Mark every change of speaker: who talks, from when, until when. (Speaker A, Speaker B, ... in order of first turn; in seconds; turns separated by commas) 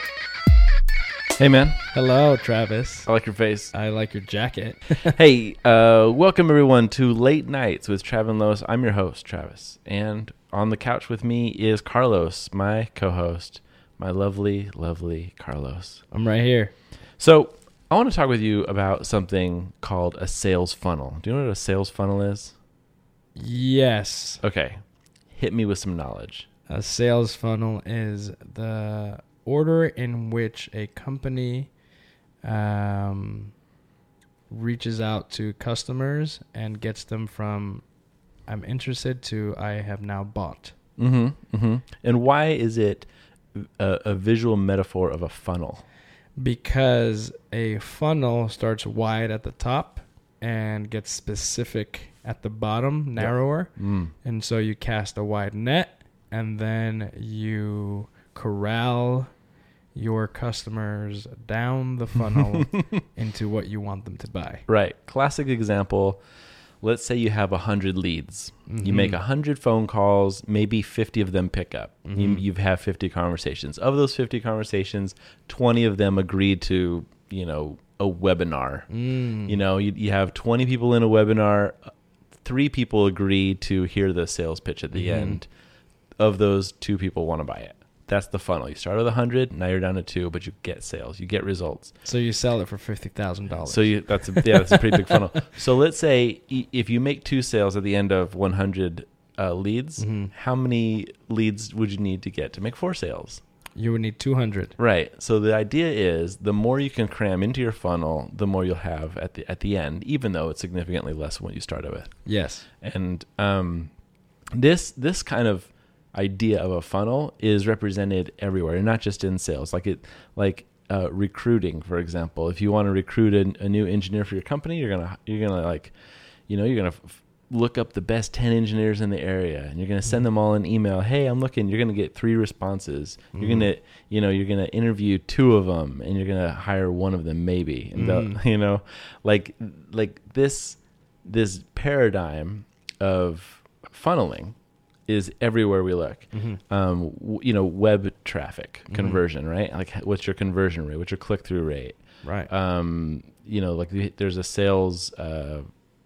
Speaker A: 1.4-1.8, Speaker B: 1.9-3.1, Speaker A: 3.1-3.7, Speaker B: 3.7-5.1, Speaker A: 5.0-16.0, Speaker B: 16.1-16.7, Speaker A: 17.2-22.5, Speaker B: 23.4-24.4, Speaker A: 24.4-24.8, Speaker A: 25.3-26.5, Speaker B: 26.7-31.7, Speaker B: 32.4-33.5, Speaker B: 34.5-37.8, Speaker B: 38.5-40.8, Speaker A: 41.0-45.8, Speaker B: 46.4-59.3, Speaker A: 53.2-54.1, Speaker B: 59.9-64.7, Speaker A: 64.7-66.2, Speaker A: 66.8-78.9, Speaker B: 68.7-69.2, Speaker B: 72.0-72.4, Speaker B: 78.9-79.6, Speaker A: 79.5-81.9, Speaker A: 82.4-85.5, Speaker B: 84.9-85.4, Speaker A: 86.2-91.9, Speaker B: 92.0-95.3, Speaker A: 93.7-103.4, Speaker B: 100.0-100.3, Speaker B: 103.8-104.8, Speaker A: 104.8-112.2, Speaker B: 112.2-112.7, Speaker A: 112.8-113.9, Speaker A: 114.5-125.9, Speaker A: 126.5-144.5, Speaker B: 133.3-133.7, Speaker B: 137.9-138.4, Speaker A: 145.1-155.7, Speaker B: 146.3-146.6, Speaker B: 148.9-149.2, Speaker B: 152.2-152.5